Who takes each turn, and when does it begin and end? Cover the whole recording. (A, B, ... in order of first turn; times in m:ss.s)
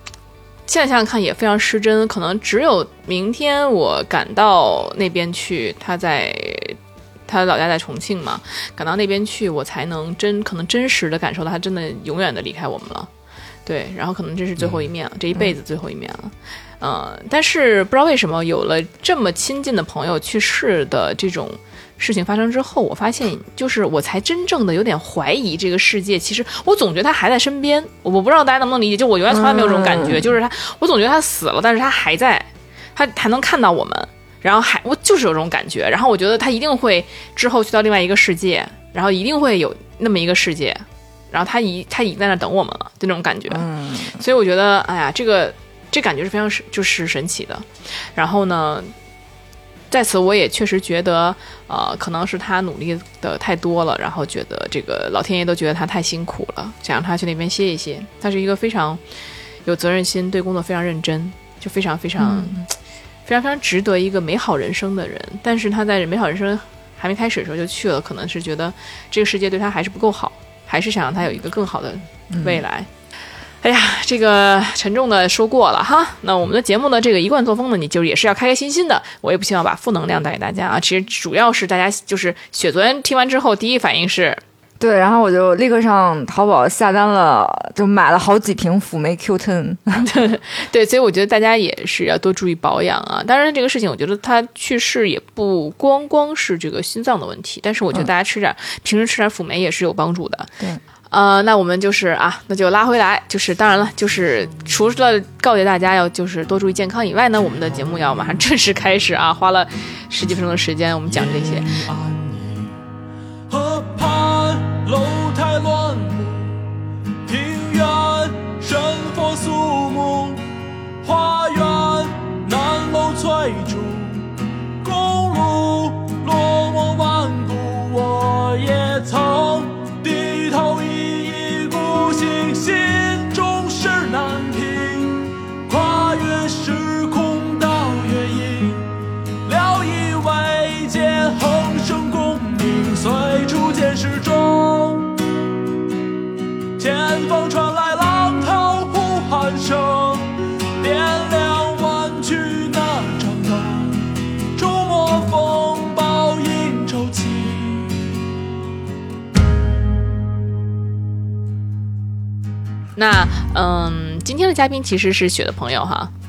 0:00.7-0:13.1 A
0:13.6-0:48.9 A
0:29.3-0:30.3 B
0:43.5-0:44.2 B
0:49.9-0:59.0 A
0:59.6-1:02.7 A
1:02.2-1:02.6 B
1:03.2-1:12.9 A
1:13.6-1:24.4 A
1:24.8-1:30.1 B
1:30.0-1:40.5 A
1:41.1-1:51.8 A
1:51.1-1:52.7 C
1:53.5-1:56.5 C
1:57.2-2:00.4 C
2:01.0-2:18.8 C
2:19.4-2:25.2 C
2:26.8-2:38.2 C
2:43.0-2:46.1 A